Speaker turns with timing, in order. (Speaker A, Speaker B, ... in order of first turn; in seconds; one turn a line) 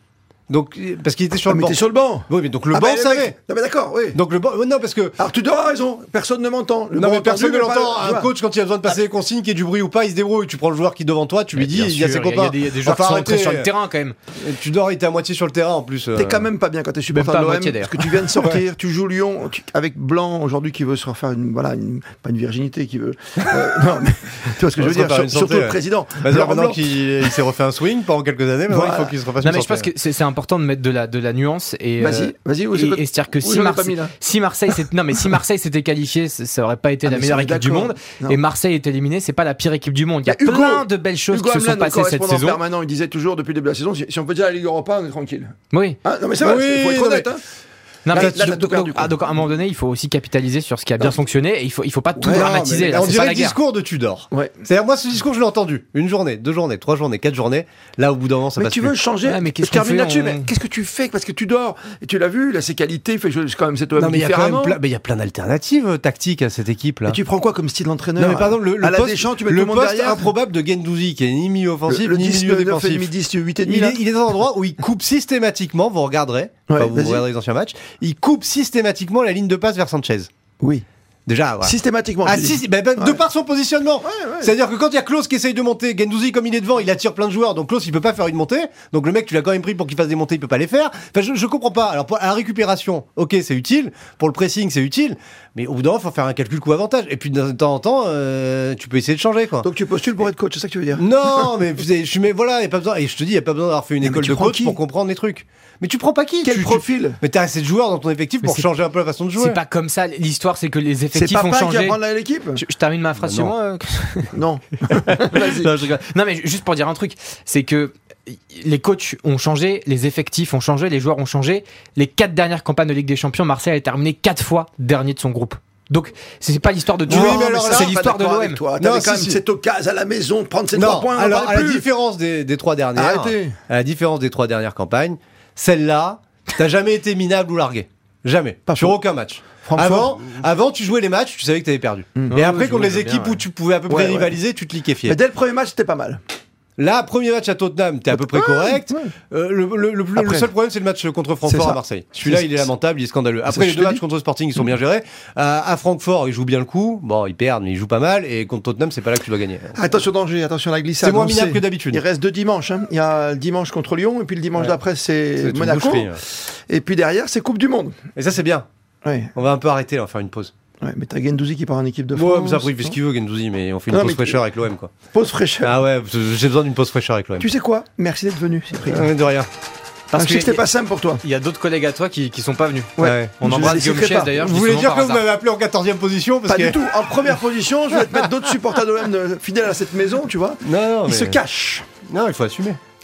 Speaker A: 0.5-3.3
Speaker B: 1.5-4.2
Speaker A: 4.1-5.2
Speaker B: 5.2-8.3
Speaker A: 6.9-13.7
Speaker C: 11.5-14.2
Speaker A: 14.4-16.4
Speaker B: 16.1-26.9
Speaker C: 17.1-18.3
Speaker A: 24.8-29.9
Speaker B: 28.7-29.1
Speaker C: 29.4-42.6
Speaker B: 32.0-34.1
Speaker B: 37.0-38.4
Speaker B: 40.2-47.4
Speaker C: 45.7-46.0
Speaker A: 46.4-47.3
Speaker C: 48.0-53.6
Speaker A: 48.1-48.5
Speaker B: 48.1-49.1
Speaker B: 52.1-53.0
Speaker A: 52.3-58.9
Speaker B: 58.6-64.8
Speaker C: 59.2-60.5
Speaker A: 64.0-67.2
Speaker B: 67.1-70.3
Speaker A: 68.2-73.1
Speaker B: 71.9-74.0
Speaker A: 73.7-80.3
Speaker B: 76.7-77.2
Speaker B: 80.6-80.8
Speaker A: 81.3-99.7
Speaker B: 81.6-83.2
Speaker B: 84.0-84.5
Speaker B: 99.6-101.5
Speaker A: 101.0-109.6
Speaker B: 104.0-104.8
Speaker B: 106.4-107.2
Speaker C: 108.4-108.7
Speaker C: 109.3-112.0
Speaker B: 111.1-112.6
Speaker C: 112.5-114.3
Speaker A: 113.2-113.5
Speaker B: 114.3-115.7
Speaker A: 115.1-115.9
Speaker C: 115.9-128.6
Speaker B: 127.0-131.8
Speaker A: 127.1-128.0
Speaker A: 128.8-129.4
Speaker A: 130.7-145.2
Speaker B: 132.9-133.5
Speaker B: 138.7-139.0
Speaker B: 139.6-140.4
Speaker C: 142.3-143.4
Speaker B: 143.9-144.3
Speaker B: 145.1-146.2
Speaker A: 146.8-160.0
Speaker B: 148.1-149.1
Speaker B: 150.1-150.5
Speaker B: 151.4-152.7
Speaker B: 153.5-154.0
Speaker B: 159.8-167.9
Speaker A: 161.0-162.0
Speaker A: 165.4-166.2
Speaker A: 168.2-168.7
Speaker B: 169.0-169.3
Speaker A: 169.3-170.5
Speaker B: 170.8-173.0
Speaker A: 172.1-174.9
Speaker B: 173.9-174.4
Speaker B: 175.1-175.7
Speaker A: 175.6-177.5
Speaker B: 177.4-179.1
Speaker A: 178.9-179.5
Speaker C: 180.1-180.6
Speaker B: 180.1-181.2
Speaker C: 181.2-185.2
Speaker B: 183.0-184.4
Speaker A: 183.0-183.6
Speaker A: 184.4-186.8
Speaker B: 186.5-191.9
Speaker A: 190.6-191.4
Speaker A: 192.1-192.8